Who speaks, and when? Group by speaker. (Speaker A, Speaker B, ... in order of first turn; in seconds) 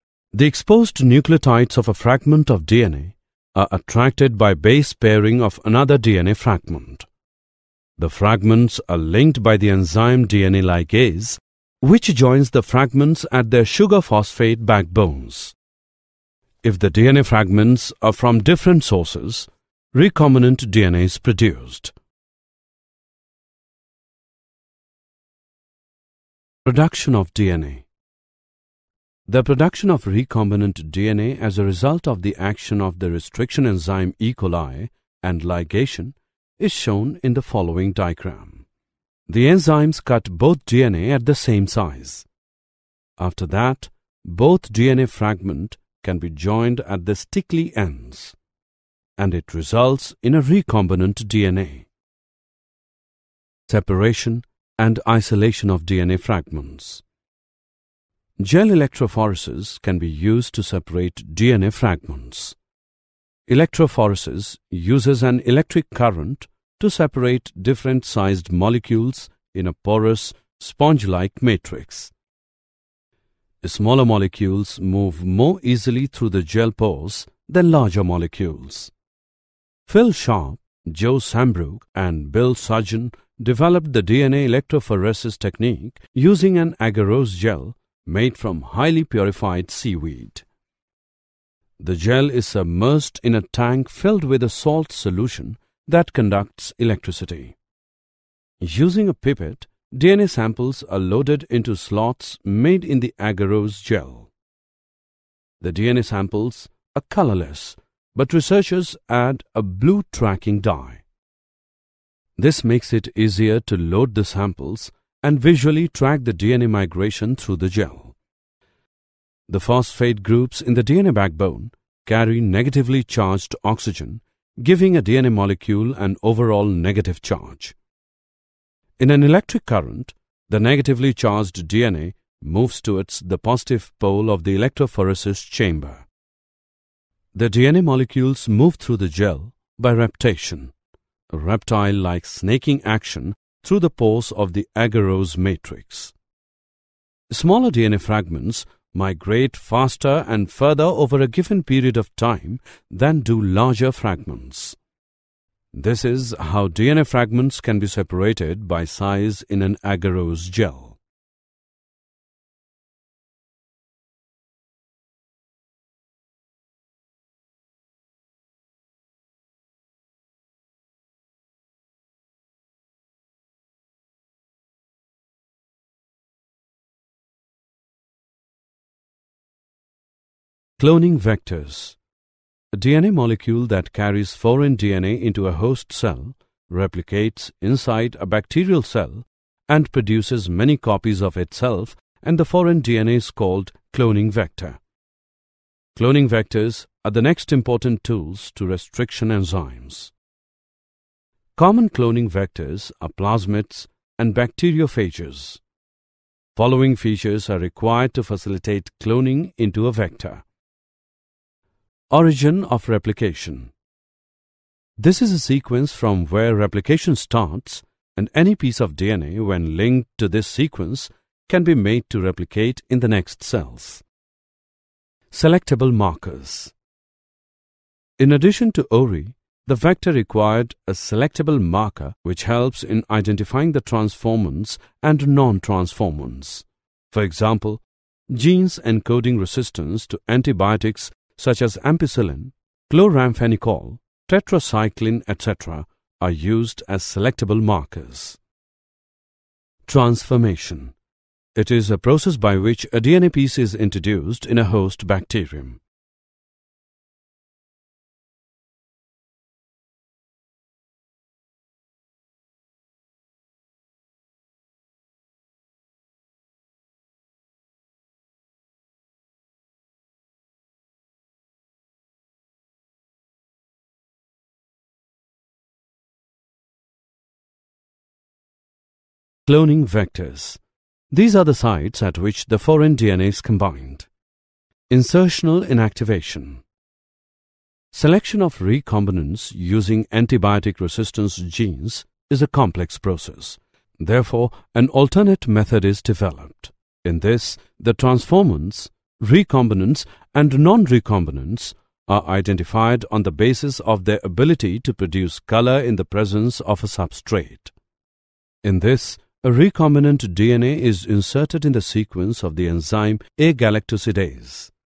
Speaker A: 0.3-7.1, 8.0-15.6, 16.6-21.9, 26.6-27.9, 29.3-38.6, 39.3-42.2, 43.2-48.4, 49.2-51.9, 53.7-57.0, 58.4-62.5, 63.5-72.1, 73.6-78.9, 79.9-90.4, 91.8-97.5, 98.6-104.3, 105.6-111.0, 112.4-118.1, 119.5-127.7, 129.0-136.1, 137.3-140.7, 141.3-146.1, 147.3-154.8, 155.7-161.0, 180.8-182.0, 182.7-194.8, 195.9-200.1, 201.6-205.6, 206.5-210.4, 212.1-213.7, 215.0-224.0, 225.3-226.7, 228.2-248.4, 249.8-250.9, 251.5-255.8, 279.4-280.6, 281.1-284.1, 284.9-286.6, 287.9-307.7, 308.6-314.7